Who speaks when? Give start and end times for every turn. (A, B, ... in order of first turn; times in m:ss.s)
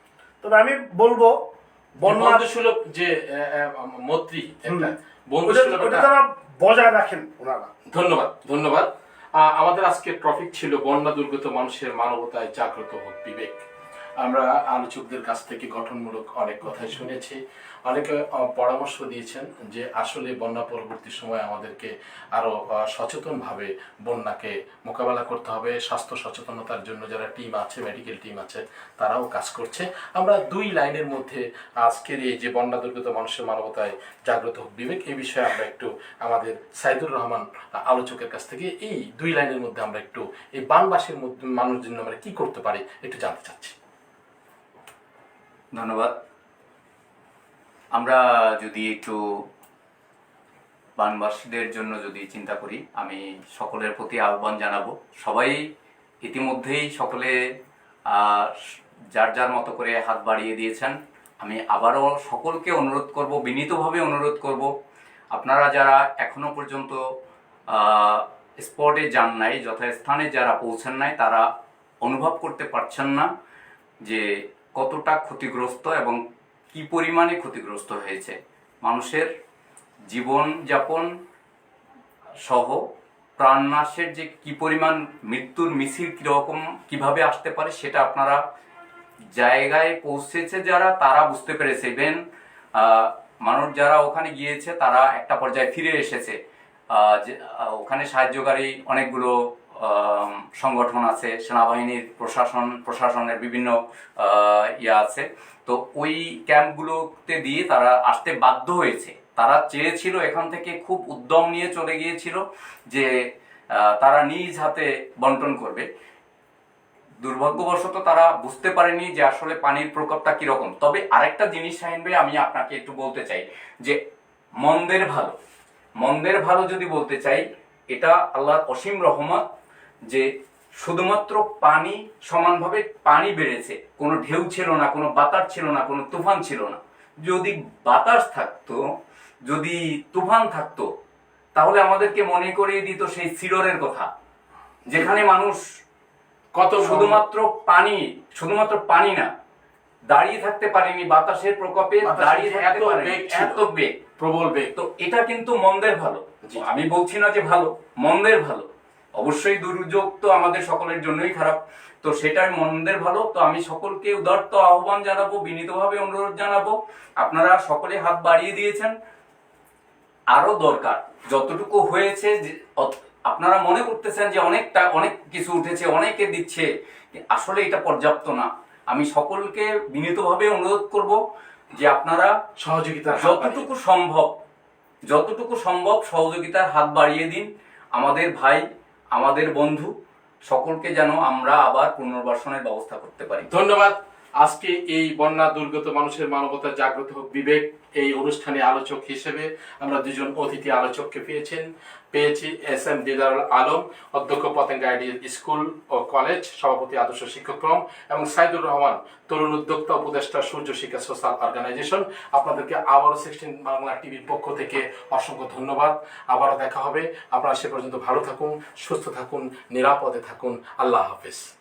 0:00.4-0:02.4 A
0:02.0-0:06.1 B
0:05.4-0:07.7 A
0:07.9-0:13.6 B
0:14.2-0:43.8 B
0:45.7-0:46.1 C
0:47.9-0:49.4 C
0:51.0-0:55.6 C
0:56.2-0:57.4 C
0:58.1-0:58.6 C
0:59.1-1:04.7 C
1:05.3-1:07.0 C
1:07.7-1:11.5 C
1:12.0-1:13.3 C
1:14.0-1:16.2 C
1:16.7-1:19.3 C
1:20.1-1:21.1 C
1:22.4-1:22.8 C
1:23.4-1:28.4 C
1:29.3-1:32.2 C
1:32.8-1:36.4 C
1:36.9-1:53.1 C
1:53.7-1:55.9 C
1:57.2-2:04.0 C
2:04.6-2:05.4 C
2:06.0-2:09.5 C
2:10.1-2:18.8 C
2:19.4-2:20.9 C
2:21.6-2:24.1 C
2:24.9-2:25.2 B
2:24.9-2:25.6 C
2:26.6-2:27.2 B
2:26.8-2:29.3 C
2:30.1-2:34.0 C
2:32.0-2:33.6 B
2:34.2-2:34.7 B
2:34.8-2:48.9 C
2:50.3-3:01.2 C
3:01.7-3:02.4 C
3:02.6-3:03.7 B
3:03.1-3:04.3 C
3:05.1-3:08.6 C
3:09.1-3:09.9 C
3:10.5-3:13.5 C
3:13.5-3:41.5 B